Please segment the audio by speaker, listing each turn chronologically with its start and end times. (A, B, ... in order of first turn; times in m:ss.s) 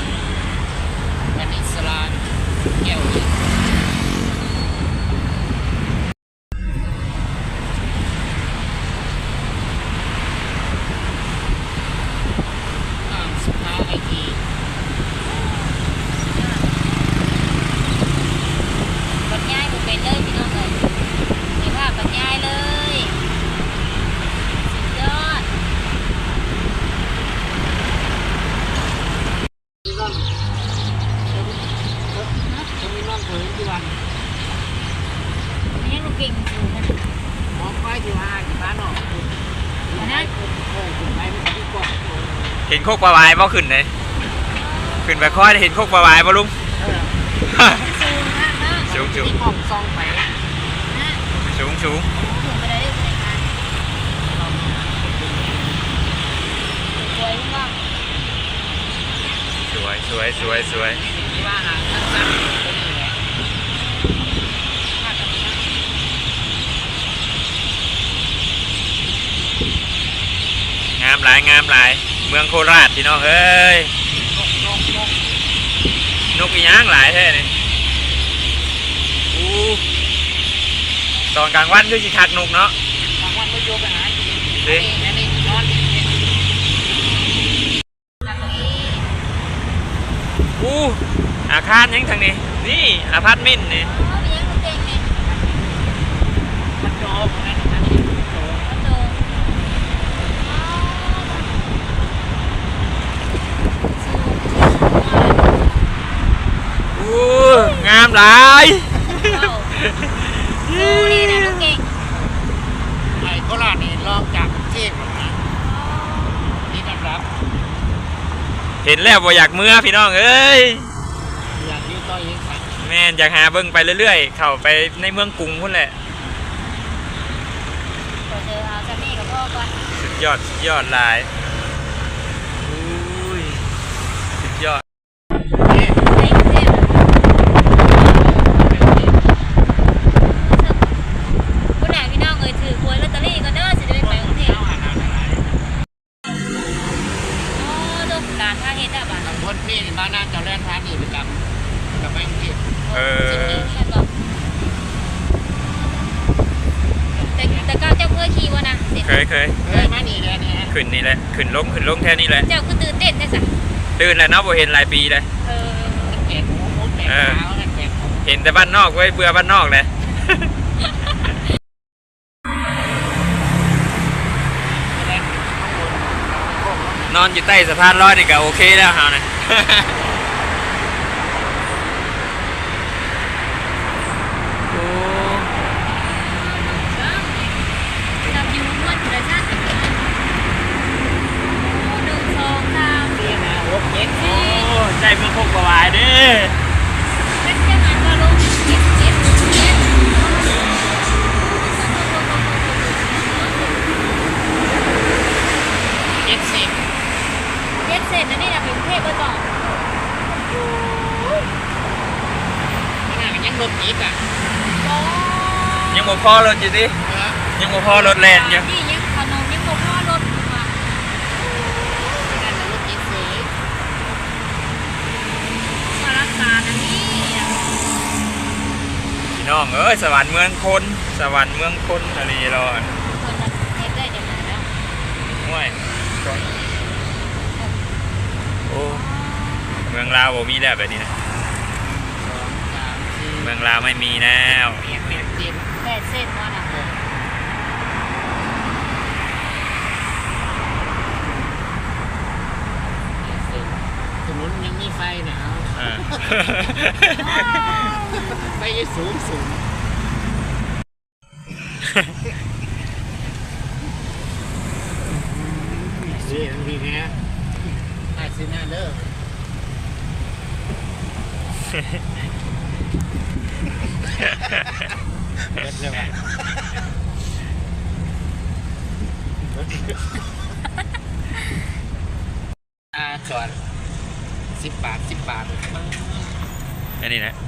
0:01.3-0:03.6 A
0:13.0-0:14.4 A
0:15.2-0:17.1 B
0:19.2-0:21.0 B
0:21.5-0:23.2 B
0:24.7-0:25.5 B
0:29.9-0:30.2 A
0:32.1-0:34.0 A
0:32.4-0:32.7 B
0:35.7-0:37.0 B
0:37.5-0:42.5 A
0:40.0-0:40.3 B
0:42.7-0:43.9 C
0:44.5-0:45.5 B
0:45.0-0:46.6 C
0:46.8-0:47.2 A
0:47.5-0:47.9 C
0:47.7-0:48.9 B
0:48.9-0:49.4 C
0:48.9-0:50.3 A
0:50.9-0:51.2 B
0:51.3-0:52.1 C
0:52.1-0:53.4 B
0:54.3-0:55.9 A
0:56.9-0:57.8 B
0:59.7-1:01.0 C
1:00.3-1:03.2 A
1:05.0-1:05.7 A
1:11.0-1:13.9 C
1:14.3-1:15.2 A
1:16.3-1:17.5 C
1:19.3-1:19.8 C
1:21.3-1:22.8 C
1:23.2-1:26.3 A
1:24.6-1:25.0 C
1:28.2-1:29.1 B
1:30.6-1:33.9 C
1:33.8-1:35.1 B
1:35.3-1:35.8 A
1:36.8-1:38.6 A
1:38.6-1:39.2 B
1:40.4-1:41.6 B
1:44.0-1:45.6 B
1:46.9-1:51.8 C
1:47.5-1:47.9 B
1:49.0-1:49.8 B
1:50.7-1:51.9 B
1:53.2-1:55.4 A
1:55.6-1:56.6 B
1:56.7-1:57.3 A
1:58.8-2:00.9 C
2:01.6-2:02.7 A
2:02.8-2:06.0 C
2:08.3-2:09.8 B
2:09.9-2:11.3 C
2:12.7-2:13.5 A
2:14.4-2:14.8 C
2:15.6-2:16.0 A
2:16.0-2:17.0 B
2:18.0-2:19.1 A
2:20.2-2:20.9 B
2:21.8-2:24.6 B
2:24.0-2:25.6 A
2:27.5-2:29.4 B
2:29.2-2:31.4 A
2:32.0-2:33.8 A
2:32.9-2:34.1 B
2:32.9-2:33.7 C
2:37.2-2:37.7 A
2:37.3-2:39.3 B
2:39.0-2:39.7 C
2:39.6-2:40.7 A
2:40.7-2:42.5 C
2:42.5-2:43.5 B
2:44.0-2:45.3 C
2:45.4-2:46.2 B
2:45.9-2:48.3 A
2:47.0-2:47.4 C
2:48.2-2:50.5 C
2:54.9-2:57.2 A
2:57.1-3:00.0 C
3:04.7-3:05.5 C
3:06.2-3:07.6 B
3:08.2-3:08.5 C
3:08.2-3:10.0 B
3:11.5-3:13.3 B
3:13.1-3:14.4 A
3:14.2-3:14.7 B
3:14.2-3:16.6 C
3:17.4-3:20.5 B
3:21.3-3:24.1 B
3:26.2-3:26.8 A
3:27.8-3:29.5 B
3:33.1-3:34.2 A
3:34.8-3:36.2 B
3:35.9-3:37.0 C
3:37.0-3:37.6 A
3:37.6-3:38.7 C
3:37.7-3:40.7 B
3:42.2-3:43.5 A
3:45.9-3:47.7 B
3:49.3-3:52.9 C
3:53.1-3:54.7 B
3:55.4-3:56.5 C
3:58.7-3:59.1 C
3:58.8-3:59.8 B
3:59.8-4:01.1 C
4:02.2-4:03.5 A
4:03.4-4:04.9 C
4:04.8-4:05.7 A
4:05.8-4:06.8 B
4:06.7-4:07.0 A
4:13.3-4:16.2 A
4:15.7-4:17.7 C
4:18.3-4:19.6 A
4:25.1-4:27.2 A
4:28.1-4:29.1 A
4:35.5-4:36.4 A
4:39.5-4:40.1 A
4:42.9-4:43.6 A
4:44.6-4:46.4 A
4:47.0-4:47.4 C